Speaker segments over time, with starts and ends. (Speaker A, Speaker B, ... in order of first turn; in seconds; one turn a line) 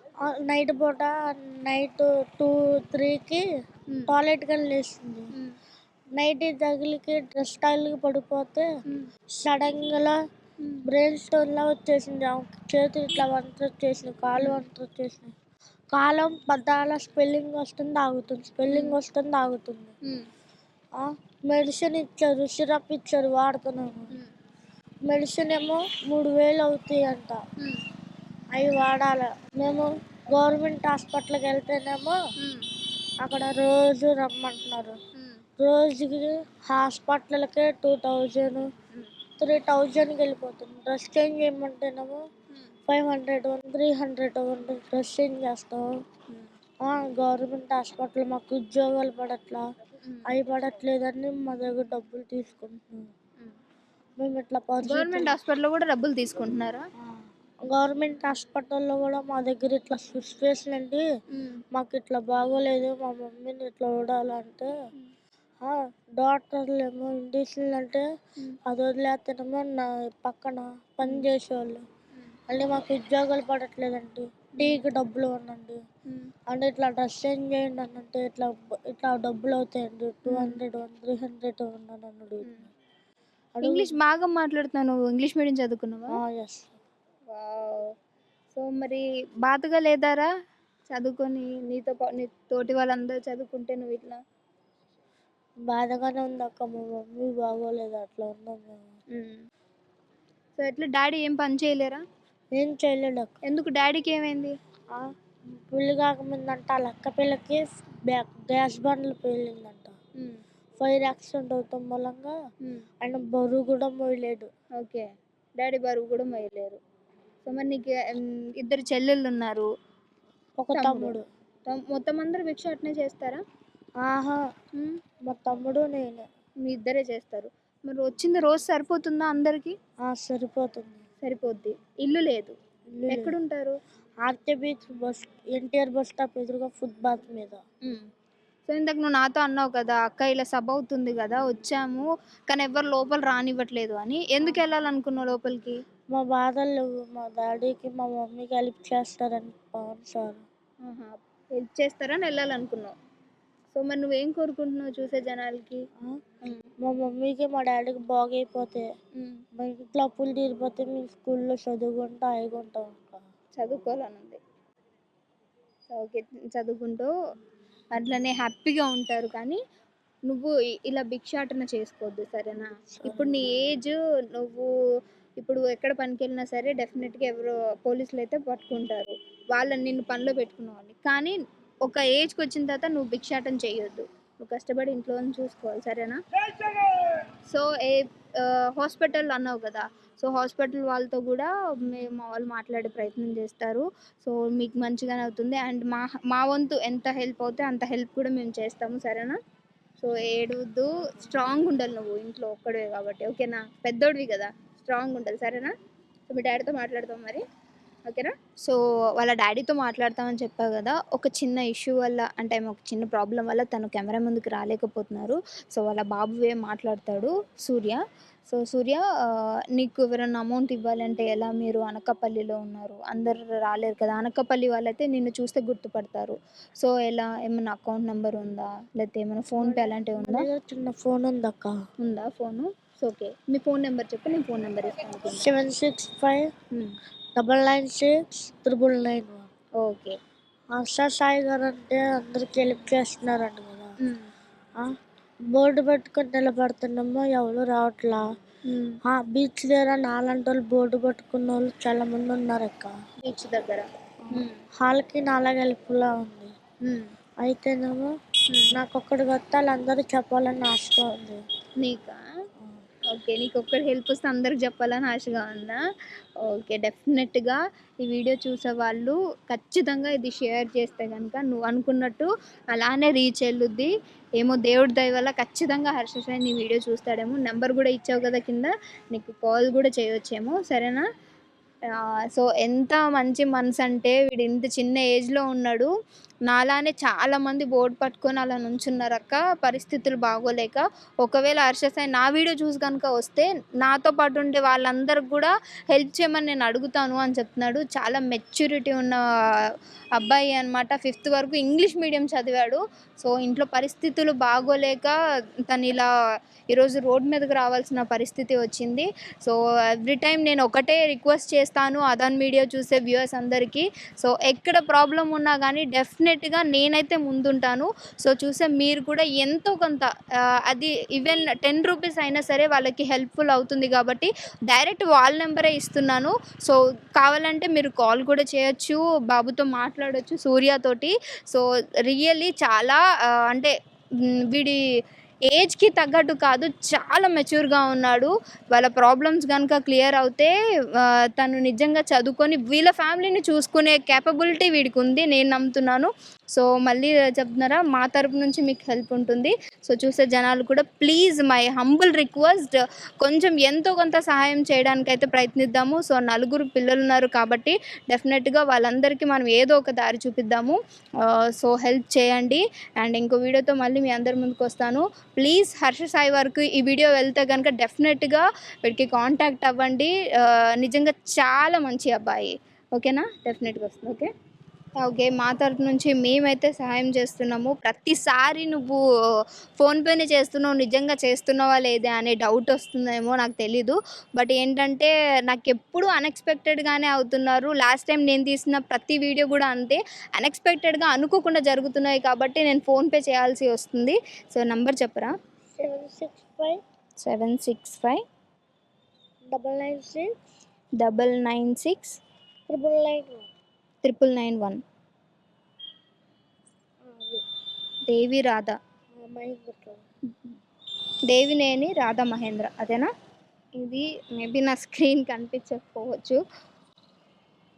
Speaker A: 0.2-3.4
Speaker A: 4.1-5.3
Speaker A: 6.2-8.6
Speaker A: 9.4-10.2
Speaker B: 10.6-10.8
Speaker A: 10.9-15.3
Speaker B: 14.4-14.6
Speaker A: 15.9-19.9
Speaker B: 18.7-19.0
Speaker A: 21.0-24.1
Speaker A: 25.1-27.4
Speaker A: 28.5-32.1
Speaker B: 32.4-32.7
Speaker A: 33.2-35.0
Speaker A: 35.6-38.7
Speaker A: 39.4-42.2
Speaker A: 42.9-45.9
Speaker A: 46.8-49.6
Speaker A: 50.2-53.1
Speaker A: 54.2-55.4
Speaker B: 54.8-56.8
Speaker A: 57.0-61.0
Speaker B: 61.4-61.6
Speaker A: 61.7-64.7
Speaker A: 65.6-68.0
Speaker A: 68.7-71.8
Speaker A: 72.5-75.8
Speaker B: 74.6-74.8
Speaker A: 76.5-82.7
Speaker B: 80.2-80.6
Speaker A: 83.5-83.9
Speaker B: 83.6-86.1
Speaker A: 86.1-86.7
Speaker B: 87.3-87.9
Speaker B: 88.5-90.3
Speaker B: 90.9-94.2
Speaker A: 95.7-98.9
Speaker B: 99.1-99.4
Speaker B: 100.6-102.0
Speaker A: 102.5-103.4
Speaker B: 103.5-104.5
Speaker A: 105.6-110.0
Speaker A: 110.8-112.3
Speaker A: 113.0-114.5
Speaker B: 114.8-115.1
Speaker B: 115.6-116.8
Speaker B: 117.4-119.7
Speaker A: 120.6-121.2
Speaker B: 120.7-121.1
Speaker B: 121.7-123.4
Speaker A: 124.0-124.4
Speaker A: 125.3-126.3
Speaker B: 126.6-129.7
Speaker A: 130.1-131.0
Speaker B: 131.2-132.5
Speaker A: 132.9-133.3
Speaker B: 133.1-133.8
Speaker A: 134.2-137.6
Speaker B: 138.7-145.8
Speaker A: 146.1-150.4
Speaker B: 150.8-152.9
Speaker B: 153.7-155.8
Speaker A: 156.8-158.8
Speaker B: 159.2-159.4
Speaker A: 159.6-163.2
Speaker B: 163.6-164.4
Speaker B: 165.9-167.1
Speaker B: 167.9-169.6
Speaker B: 170.3-174.7
Speaker A: 172.9-173.4
Speaker B: 175.4-199.4
Speaker B: 200.0-205.7
Speaker B: 206.3-207.4
Speaker B: 208.1-219.0
Speaker B: 219.7-230.5
Speaker A: 229.6-231.7
Speaker B: 232.0-235.5
Speaker A: 235.3-236.5
Speaker A: 237.3-239.5
Speaker B: 239.8-240.2
Speaker A: 240.7-243.9
Speaker A: 245.5-248.2
Speaker B: 248.7-249.0
Speaker A: 249.0-252.9
Speaker B: 253.2-254.5
Speaker A: 254.2-256.5
Speaker B: 256.8-257.1
Speaker A: 257.4-258.1
Speaker A: 258.7-261.4
Speaker B: 261.8-262.2
Speaker B: 263.1-265.8
Speaker B: 266.4-281.0
Speaker B: 282.2-285.9
Speaker B: 286.5-299.2
Speaker B: 300.1-305.1
Speaker B: 305.7-306.1
Speaker B: 306.7-320.1
Speaker B: 320.6-333.7
Speaker B: 334.5-334.8
Speaker B: 335.5-374.3
Speaker B: 374.9-379.0
Speaker B: 379.8-395.3
Speaker A: 395.8-396.8
Speaker B: 397.2-398.2
Speaker A: 399.5-400.3
Speaker B: 401.0-402.2
Speaker A: 402.7-403.5
Speaker B: 404.0-404.8
Speaker A: 407.0-407.4
Speaker B: 408.1-408.7
Speaker A: 409.1-410.0
Speaker B: 411.3-413.1
Speaker B: 413.8-416.4